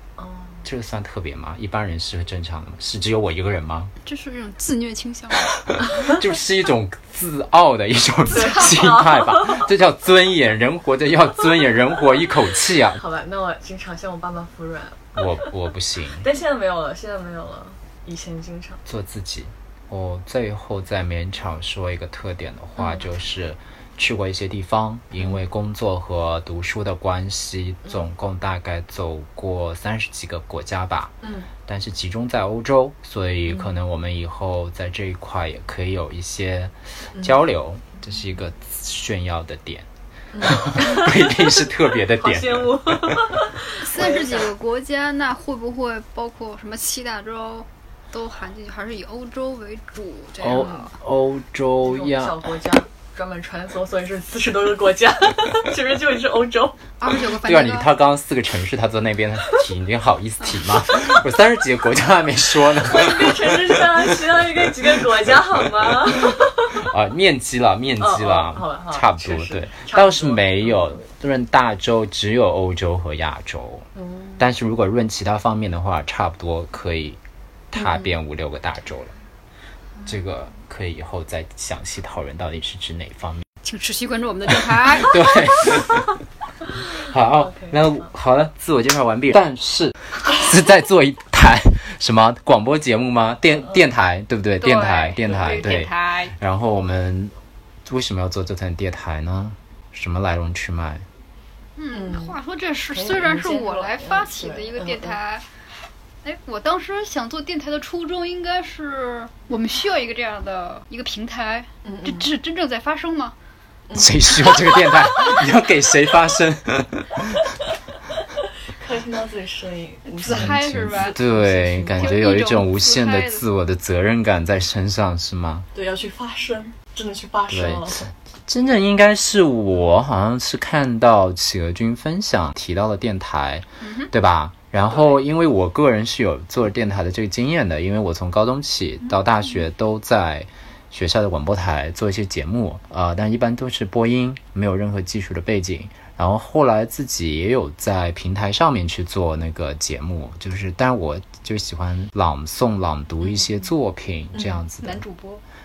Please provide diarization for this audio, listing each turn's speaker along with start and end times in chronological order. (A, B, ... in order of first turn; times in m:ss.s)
0:00.2-0:00.6 A
0:00.6-0:03.9 B
0:04.0-0:05.6 C
0:05.6-0:13.0 B
0:08.3-0:09.7 A
0:12.9-0:15.2 A
0:15.1-0:16.3 B
0:16.2-0:18.8 A
0:18.9-0:39.9 B
0:31.2-0:31.5 A
0:40.3-0:44.5 A
0:40.4-0:43.3 B
0:43.7-0:50.9 C
0:50.4-0:52.4 B
0:50.5-0:50.8 A
0:51.8-0:56.8 A
0:57.0-0:57.9 C
0:57.2-1:04.0 B
1:02.8-1:06.8 A
1:06.3-1:13.9 B
1:08.0-1:10.9 A
1:13.9-1:14.4 A
1:14.4-1:17.2 B
1:17.7-1:19.1 B
1:17.8-1:18.1 A
1:20.0-1:23.4 B
1:23.6-1:25.4 C
1:24.7-1:26.1 B
1:26.7-1:37.3 B
1:27.4-1:27.8 A
1:34.6-1:36.3 C
1:37.8-1:41.0 B
1:41.8-1:45.4 C
1:41.9-1:42.4 A
1:42.9-1:45.2 A
1:46.2-1:53.3 C
1:51.8-1:52.3 A
1:53.9-1:55.0 A
1:53.9-1:57.6 B
1:58.6-2:02.2 A
2:00.1-2:01.2 C
2:00.3-2:05.7 B
2:02.0-2:03.4 C
2:05.7-2:08.0 A
2:07.5-2:35.0 B
2:13.8-2:14.1 C
2:34.8-2:35.4 C